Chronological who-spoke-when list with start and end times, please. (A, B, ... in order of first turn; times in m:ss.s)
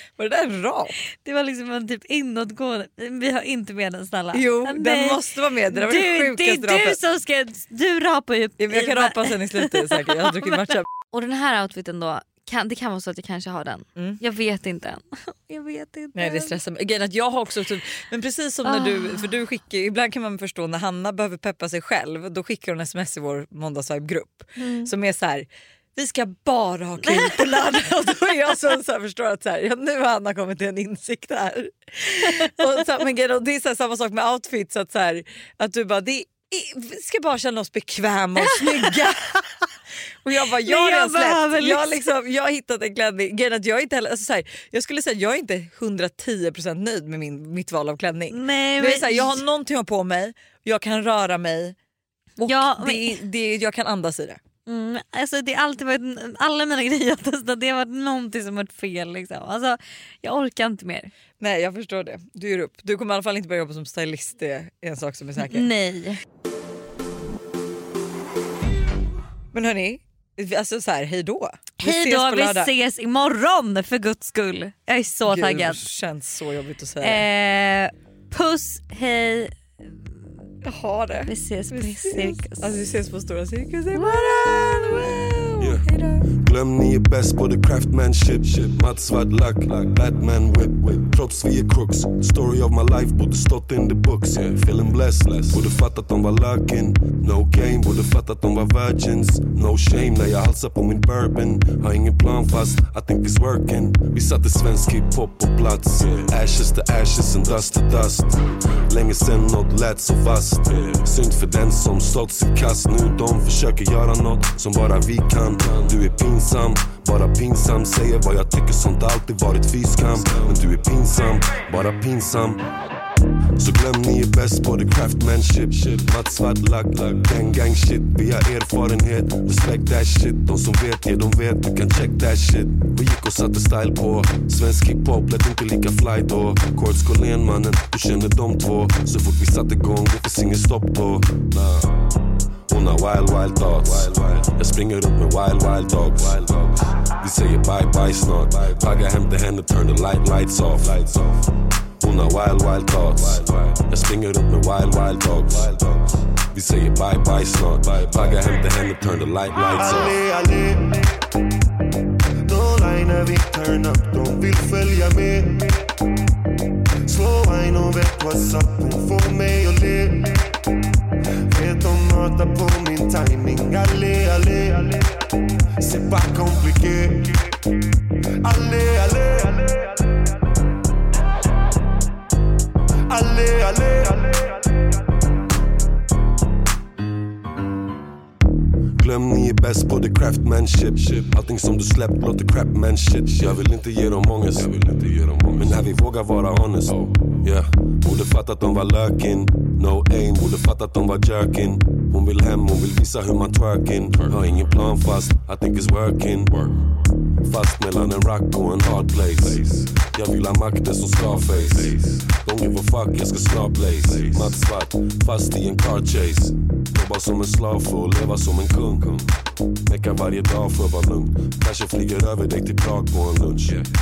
0:00.2-0:01.0 A
0:01.2-0:16.6 B
0:04.3-0:07.0 A
0:08.6-0:10.9 A
0:14.0-0:14.2 A
0:16.1-0:39.3 A
0:18.6-0:19.3 B
0:24.6-0:24.9 B
0:27.0-0:27.8 B
0:32.2-0:32.6 B
0:38.4-0:39.1 B
0:40.2-0:51.8 A
0:40.6-0:42.1 B
0:48.3-0:49.4 B
0:52.4-0:54.4 A
0:52.4-0:53.2 B
0:54.6-1:01.1 B
1:01.4-1:05.7 A
1:05.4-1:06.2 B
1:09.5-1:12.7 A
1:11.8-1:15.8 B
1:15.3-1:17.3 A
1:17.0-1:20.2 B
1:20.6-1:26.3 A
1:21.3-1:22.7 B
1:23.9-1:25.2 B
1:25.6-2:02.6 C
2:03.6-2:22.0 C
2:22.7-2:40.2 C
2:39.8-2:41.2 D
2:42.4-2:45.9 D
2:47.1-2:50.6 D
2:51.5-2:55.3 D
2:55.8-2:57.6 D
2:58.4-3:00.1 D
3:03.1-3:04.7 D
3:09.0-3:39.3 C
3:39.9-3:43.9 C